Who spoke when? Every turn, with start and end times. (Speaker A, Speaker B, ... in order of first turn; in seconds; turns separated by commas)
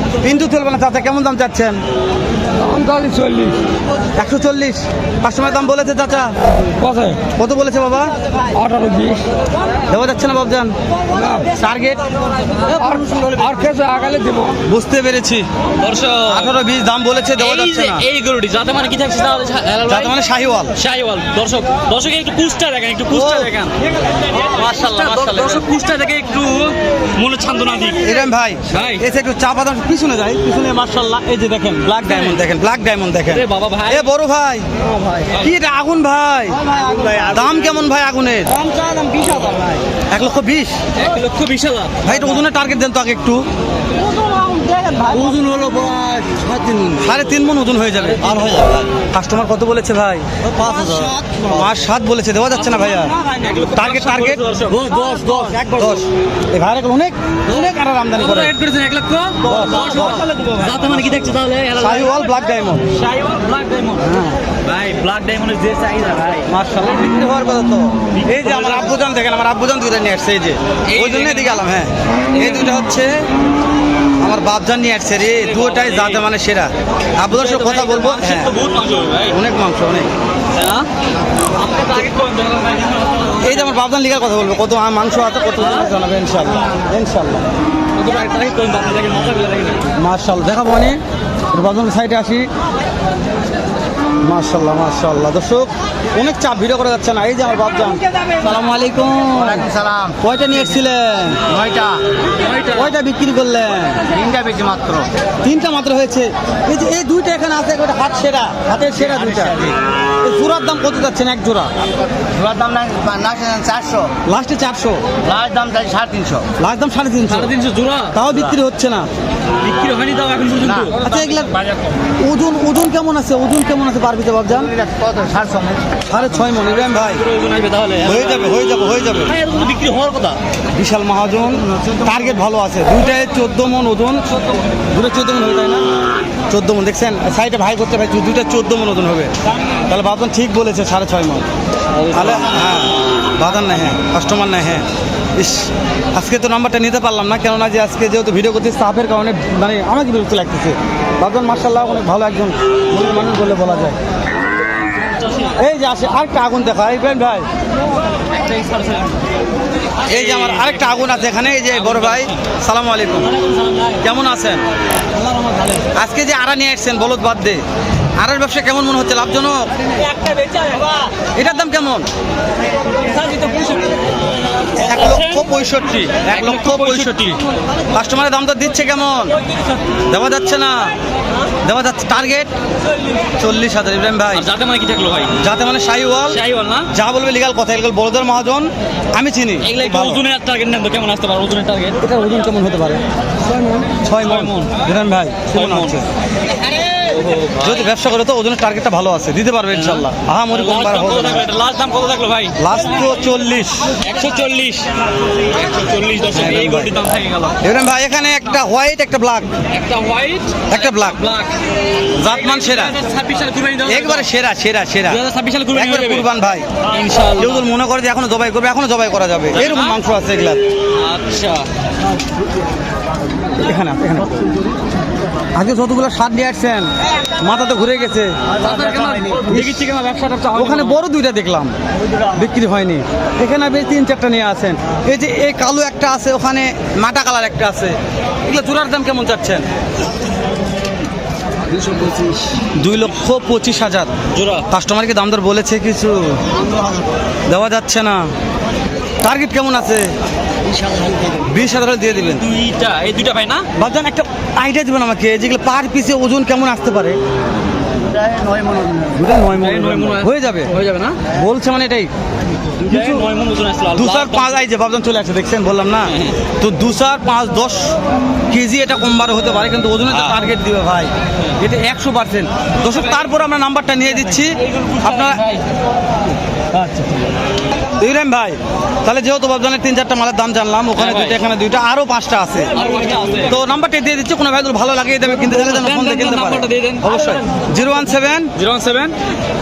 Speaker A: 0.2-1.8, Speaker B: 2.6-3.5, Speaker A: 4.2-6.3, Speaker B: 6.8-7.2, Speaker A: 7.3-8.1, Speaker B: 8.5-9.2, Speaker A: 9.9-10.7, Speaker A: 11.3-12.0, Speaker B: 12.6-14.5, Speaker A: 14.6-15.4, Speaker B: 15.8-16.6, Speaker A: 16.2-18.1, Speaker B: 17.3-20.1, Speaker A: 19.8-20.8, Speaker B: 20.7-29.1, Speaker A: 23.1-23.5, Speaker A: 24.4-25.6, Speaker A: 27.9-34.7, Speaker B: 31.9-32.4, Speaker B: 33.3-34.1, Speaker B: 35.2-35.5, Speaker A: 35.4-36.6, Speaker C: 36.7-37.3, Speaker A: 37.2-38.5, Speaker B: 38.6-39.8, Speaker C: 38.7-39.7, Speaker A: 40.1-40.8, Speaker B: 41.0-42.4, Speaker A: 42.0-43.4, Speaker C: 44.0-46.9, Speaker B: 45.0-45.7, Speaker A: 46.9-48.4, Speaker B: 48.0-48.8, Speaker C: 48.4-48.8, Speaker A: 48.9-53.1, Speaker C: 50.5-51.5, Speaker B: 50.5-51.3, Speaker B: 52.5-56.0, Speaker A: 53.7-54.4, Speaker C: 54.7-55.8, Speaker A: 55.7-58.5, Speaker B: 58.1-62.4, Speaker A: 59.4-60.2, Speaker A: 60.8-62.8, Speaker B: 62.9-66.5, Speaker A: 64.0-64.4, Speaker A: 66.5-73.2, Speaker B: 68.1-68.9, Speaker B: 70.9-71.7, Speaker B: 72.3-72.8, Speaker A: 74.2-78.6, Speaker B: 75.2-76.3, Speaker B: 77.3-79.4, Speaker A: 79.2-80.1, Speaker B: 80.5-80.9, Speaker B: 81.5-83.7, Speaker A: 83.4-87.4, Speaker B: 85.6-85.9, Speaker B: 87.9-89.9, Speaker A: 89.9-91.0, Speaker A: 91.5-92.5, Speaker A: 94.2-99.7, Speaker C: 99.3-100.2, Speaker A: 100.2-101.5, Speaker C: 101.5-102.0, Speaker B: 102.5-102.8, Speaker A: 102.7-104.1, Speaker C: 104.1-105.1, Speaker A: 105.4-111.7, Speaker C: 109.0-109.7, Speaker C: 112.2-114.2, Speaker A: 114.2-115.0, Speaker C: 115.2-116.5, Speaker A: 116.6-117.5, Speaker B: 117.2-118.2, Speaker A: 118.1-119.1, Speaker B: 119.6-122.0, Speaker C: 120.6-121.0, Speaker A: 121.0-121.5, Speaker A: 122.2-124.7, Speaker C: 124.6-126.0, Speaker A: 126.1-127.2, Speaker B: 126.7-128.4, Speaker A: 128.0-129.3, Speaker B: 129.2-130.4, Speaker A: 130.7-134.2, Speaker A: 134.8-135.8, Speaker A: 136.5-141.5, Speaker B: 141.9-142.8, Speaker A: 142.1-154.0, Speaker A: 155.5-157.4, Speaker B: 158.3-159.2, Speaker B: 159.9-162.4, Speaker A: 160.0-163.3, Speaker B: 163.3-164.0, Speaker A: 164.0-164.6, Speaker B: 165.1-165.9, Speaker A: 165.9-167.6, Speaker A: 168.2-169.7, Speaker B: 169.9-171.1, Speaker A: 171.3-172.1, Speaker B: 173.0-174.1, Speaker A: 174.8-177.4, Speaker B: 174.8-175.5, Speaker B: 176.2-177.4, Speaker A: 177.9-179.3, Speaker A: 180.1-180.9, Speaker A: 181.6-182.5, Speaker A: 183.4-184.5, Speaker B: 184.3-185.4, Speaker A: 185.3-190.2, Speaker B: 186.3-186.9, Speaker B: 189.6-192.0, Speaker A: 192.0-193.0, Speaker B: 193.5-194.8, Speaker A: 194.0-196.1, Speaker B: 195.5-196.0, Speaker B: 196.9-197.9, Speaker A: 197.6-201.5, Speaker B: 199.7-202.8, Speaker A: 202.6-203.9, Speaker B: 204.0-207.6, Speaker A: 206.3-206.9, Speaker A: 207.6-209.5, Speaker B: 209.7-211.6, Speaker A: 210.7-211.2, Speaker A: 212.1-213.0, Speaker B: 212.2-214.3, Speaker A: 213.8-216.7, Speaker B: 215.1-216.3, Speaker B: 216.8-217.7, Speaker A: 217.3-220.6, Speaker B: 219.5-220.0, Speaker B: 220.9-221.7, Speaker A: 223.5-224.4, Speaker A: 225.5-228.4, Speaker B: 228.5-231.0, Speaker A: 229.3-229.9, Speaker A: 230.5-231.7, Speaker A: 232.3-239.7, Speaker B: 241.9-242.1, Speaker A: 242.8-244.1, Speaker B: 244.3-244.7, Speaker A: 244.7-246.5, Speaker A: 247.5-248.3, Speaker A: 249.2-250.1, Speaker A: 251.3-252.5, Speaker B: 252.2-253.7, Speaker A: 253.8-257.2, Speaker C: 258.0-259.2, Speaker A: 259.1-260.7, Speaker B: 259.5-261.2, Speaker A: 261.3-262.1, Speaker B: 262.8-264.6, Speaker A: 262.9-263.2, Speaker A: 263.9-268.0, Speaker B: 266.1-266.4, Speaker A: 268.5-275.4, Speaker B: 270.1-270.4, Speaker B: 272.9-273.3, Speaker B: 274.2-275.6, Speaker B: 276.7-277.3, Speaker A: 278.0-282.8, Speaker B: 280.9-281.4, Speaker B: 282.7-283.6, Speaker A: 283.5-288.5, Speaker B: 285.2-287.5, Speaker B: 288.6-289.1